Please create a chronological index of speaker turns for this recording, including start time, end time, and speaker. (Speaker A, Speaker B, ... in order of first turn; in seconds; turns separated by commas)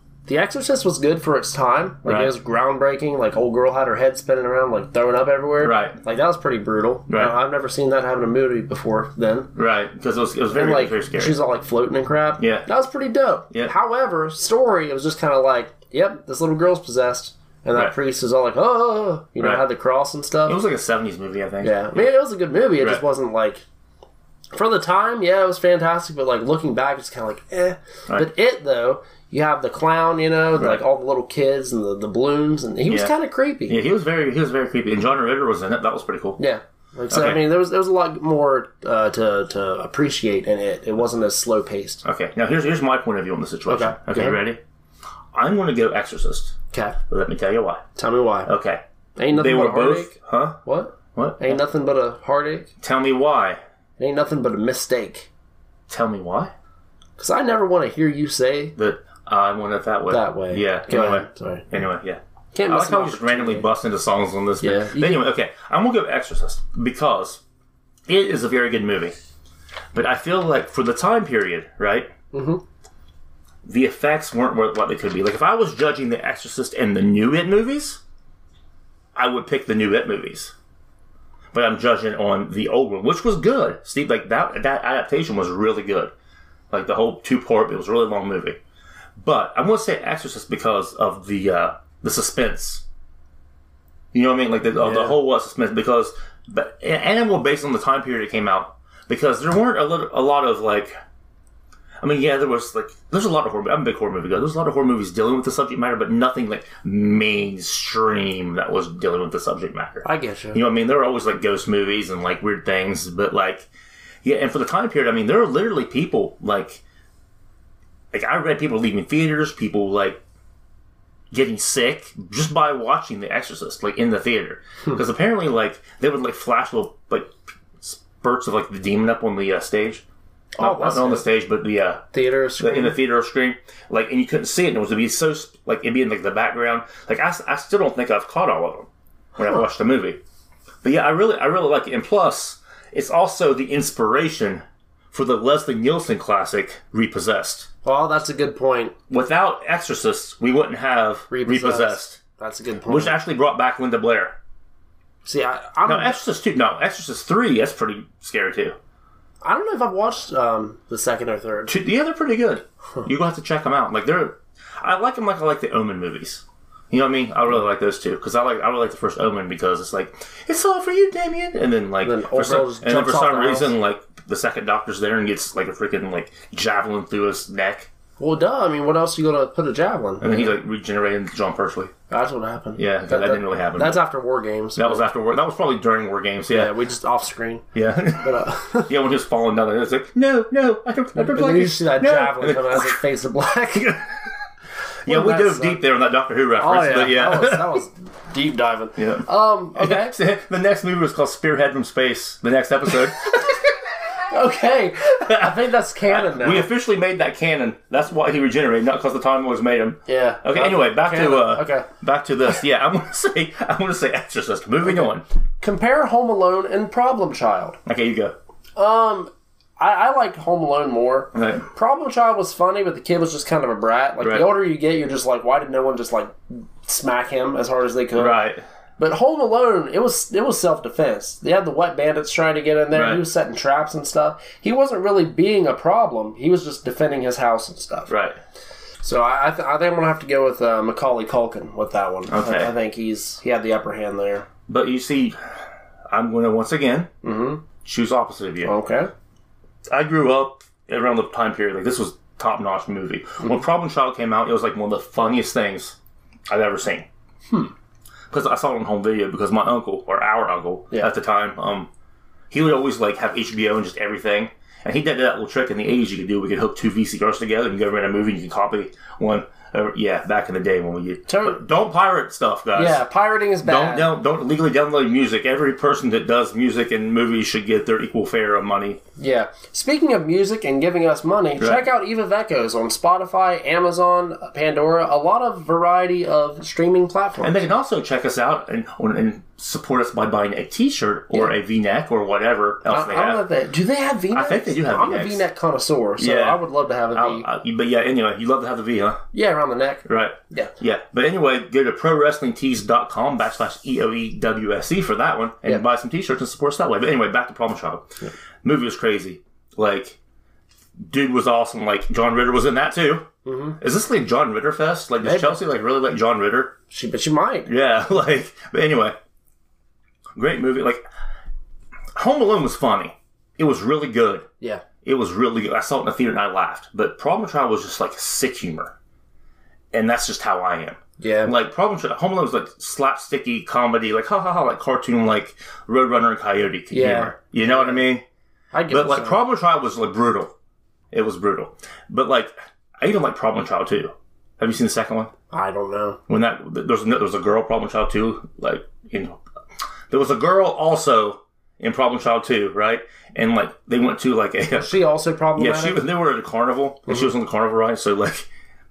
Speaker A: 0.2-9.5, Speaker B: 2.0-2.3, Speaker B: 5.6-6.0, Speaker B: 7.1-7.3, Speaker B: 9.6-11.4, Speaker A: 10.5-20.6, Speaker B: 12.4-12.7, Speaker B: 19.4-19.6, Speaker B: 20.4-22.1, Speaker A: 21.6-23.6, Speaker A: 24.5-33.8, Speaker B: 32.9-33.1, Speaker B: 33.7-36.4, Speaker A: 36.4-42.0, Speaker B: 37.1-37.4, Speaker B: 42.0-44.6, Speaker A: 43.7-44.4, Speaker B: 45.3-46.5, Speaker A: 46.7-47.0, Speaker B: 47.1-47.9, Speaker A: 48.0-48.5, Speaker B: 48.5-50.6, Speaker A: 49.2-50.1, Speaker A: 50.6-52.7, Speaker B: 51.1-51.6, Speaker B: 52.8-53.6, Speaker A: 54.0-55.3, Speaker B: 55.9-56.5, Speaker A: 57.2-58.7, Speaker B: 58.8-67.4, Speaker A: 60.1-61.7, Speaker A: 62.5-63.7, Speaker A: 64.6-65.2, Speaker B: 68.1-69.1, Speaker B: 69.9-72.1, Speaker A: 72.3-72.6, Speaker B: 73.6-78.0, Speaker B: 79.1-80.5, Speaker B: 81.5-86.1, Speaker B: 86.7-88.6, Speaker B: 89.2-92.8, Speaker B: 94.1-100.9, Speaker A: 94.8-95.2, Speaker B: 102.0-113.7, Speaker A: 110.0-110.6, Speaker B: 114.2-116.8, Speaker B: 118.1-120.2, Speaker B: 121.3-130.0, Speaker A: 130.6-131.3, Speaker B: 130.6-132.0, Speaker A: 132.1-133.0, Speaker B: 132.6-140.2, Speaker B: 140.8-147.7, Speaker A: 147.8-148.9, Speaker B: 149.1-152.2, Speaker A: 151.3-153.2, Speaker B: 152.9-154.4, Speaker A: 155.2-156.2, Speaker B: 155.9-158.8, Speaker A: 159.4-161.8, Speaker B: 161.7-177.9, Speaker A: 172.0-173.7, Speaker A: 178.2-180.5, Speaker B: 180.2-181.9, Speaker A: 182.1-185.0, Speaker B: 182.8-184.0, Speaker B: 184.8-186.7, Speaker A: 186.5-187.7, Speaker B: 187.7-193.0, Speaker A: 188.2-188.9, Speaker A: 191.1-194.0, Speaker B: 193.7-194.3, Speaker B: 195.0-197.8, Speaker A: 195.1-195.8, Speaker A: 196.6-200.1, Speaker B: 199.0-203.2, Speaker A: 204.2-206.7, Speaker B: 205.2-215.2, Speaker A: 210.1-211.9, Speaker A: 214.8-217.8, Speaker B: 217.9-218.3, Speaker A: 218.8-228.4, Speaker B: 221.3-221.7, Speaker B: 224.2-224.5, Speaker B: 228.2-228.6, Speaker A: 229.0-238.1, Speaker B: 232.9-233.2, Speaker B: 238.1-238.4, Speaker A: 239.0-244.4, Speaker B: 242.3-242.7, Speaker B: 244.7-245.4, Speaker B: 246.1-247.1, Speaker A: 247.2-247.6, Speaker B: 247.8-248.7, Speaker A: 248.6-249.1, Speaker B: 249.9-256.0, Speaker B: 256.5-257.1, Speaker B: 258.3-261.9, Speaker B: 262.5-273.0, Speaker A: 271.3-271.6, Speaker A: 272.8-274.1, Speaker B: 273.6-279.0, Speaker A: 279.2-287.6, Speaker B: 281.6-281.9, Speaker B: 287.4-293.4, Speaker A: 292.9-297.5, Speaker B: 294.3-295.4, Speaker B: 296.2-296.6, Speaker B: 297.1-299.2, Speaker A: 299.3-300.7, Speaker B: 300.1-308.1, Speaker B: 308.6-310.2, Speaker B: 311.0-313.2, Speaker A: 313.4-313.8, Speaker B: 313.8-316.8, Speaker A: 315.2-315.6, Speaker A: 316.9-317.7, Speaker B: 317.7-319.1, Speaker B: 320.4-321.0, Speaker B: 322.1-324.4, Speaker B: 325.0-328.9, Speaker B: 329.9-338.2, Speaker A: 331.2-331.5, Speaker A: 336.9-338.1, Speaker A: 338.7-339.4, Speaker B: 338.9-340.5, Speaker B: 341.1-345.3, Speaker A: 345.5-346.2, Speaker B: 346.3-349.4, Speaker B: 350.1-355.0, Speaker A: 354.7-356.0, Speaker B: 355.6-358.5